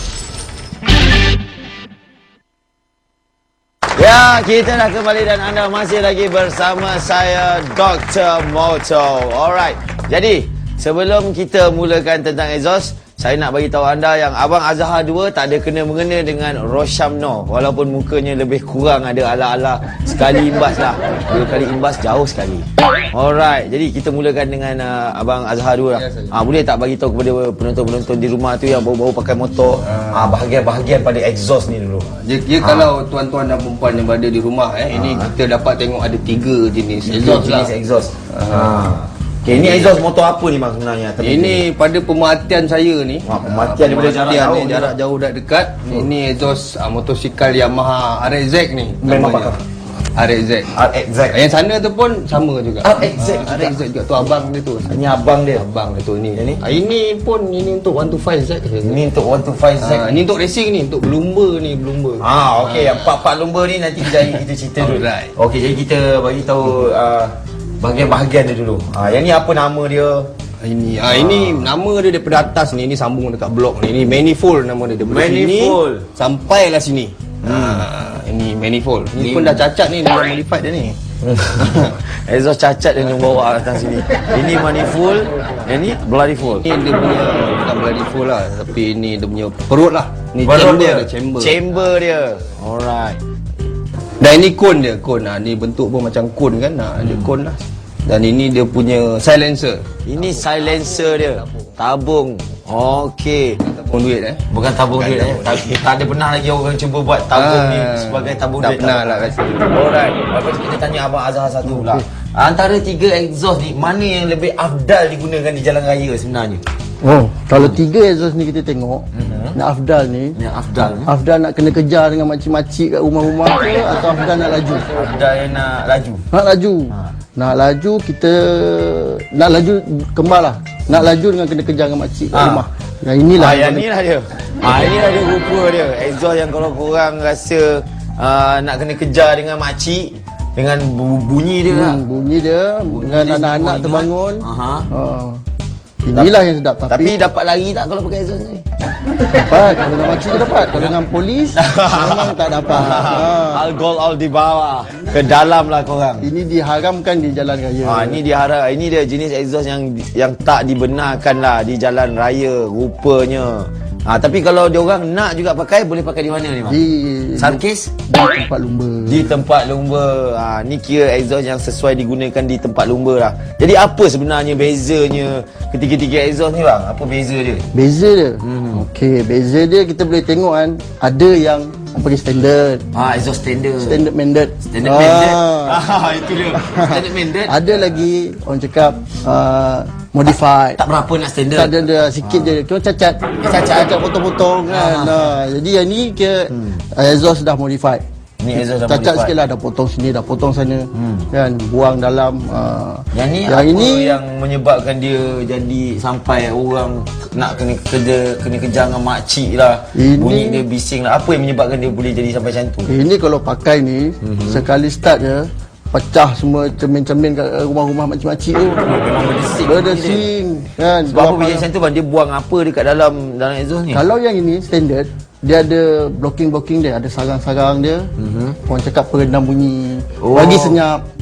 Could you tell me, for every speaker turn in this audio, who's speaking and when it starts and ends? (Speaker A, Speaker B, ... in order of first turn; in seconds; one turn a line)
Speaker A: 4.0-32.1
Speaker B: 25.9-26.3
Speaker B: 29.8-30.3
Speaker B: 32.1-37.7
Speaker A: 32.6-32.9
Speaker A: 34.9-35.3
Speaker A: 37.0-41.7
Speaker B: 38.3-38.9
Speaker B: 39.5-40.0
Speaker B: 41.2-49.6
Speaker A: 43.2-45.0
Speaker A: 49.0-49.6
Speaker B: 50.1-59.0
Speaker A: 50.7-51.4
Speaker A: 52.8-53.8
Speaker A: 54.9-55.7
Speaker A: 56.3-56.6
Speaker A: 58.8-60.2
Speaker B: 59.8-63.1
Speaker A: 62.2-70.3
Speaker B: 64.8-65.3
Speaker B: 70.6-81.0
Speaker A: 71.1-71.7
Speaker A: 75.0-76.0
Speaker A: 77.4-77.9
Speaker A: 79.1-79.6
Speaker A: 81.2-86.6
Speaker B: 81.7-81.9
Speaker B: 86.5-91.6
Speaker A: 90.4-93.2
Speaker B: 94.2-101.7
Speaker A: 100.0-103.6
Speaker B: 103.6-105.6
Speaker A: 104.5-116.6
Speaker B: 107.3-109.7
Speaker C: 111.6-112.0
Speaker C: 117.0-120.4
Speaker A: 117.5-117.8
Speaker A: 119.1-119.6
Speaker A: 120.3-121.1
Speaker C: 121.0-124.8
Speaker A: 124.9-126.2
Speaker C: 126.3-133.8
Speaker A: 132.3-132.7
Speaker A: 133.3-142.0
Speaker C: 141.7-145.4
Speaker A: 142.8-144.9
Speaker C: 146.0-147.1
Speaker A: 146.9-148.6
Speaker C: 149.3-153.6
Speaker A: 150.7-150.9
Speaker A: 151.5-156.3
Speaker C: 156.2-158.2
Speaker A: 157.8-166.8
Speaker C: 166.7-169.2
Speaker A: 167.4-167.9
Speaker A: 169.0-177.7
Speaker C: 177.7-182.8
Speaker A: 178.4-178.8
Speaker A: 182.9-184.0
Speaker C: 183.8-185.8
Speaker A: 184.7-187.9
Speaker C: 186.6-190.8
Speaker A: 190.8-192.6
Speaker C: 191.5-198.0
Speaker A: 193.4-194.0
Speaker A: 194.7-195.3
Speaker A: 196.5-196.8
Speaker A: 198.4-199.3
Speaker C: 198.6-204.2
Speaker A: 200.9-201.3
Speaker A: 203.1-212.9
Speaker C: 209.9-210.6
Speaker C: 212.8-218.8
Speaker A: 214.2-214.7
Speaker A: 218.8-220.3
Speaker C: 219.6-221.7
Speaker A: 221.1-224.0
Speaker C: 223.9-228.1
Speaker A: 228.2-228.6
Speaker C: 228.6-231.0
Speaker A: 230.2-230.8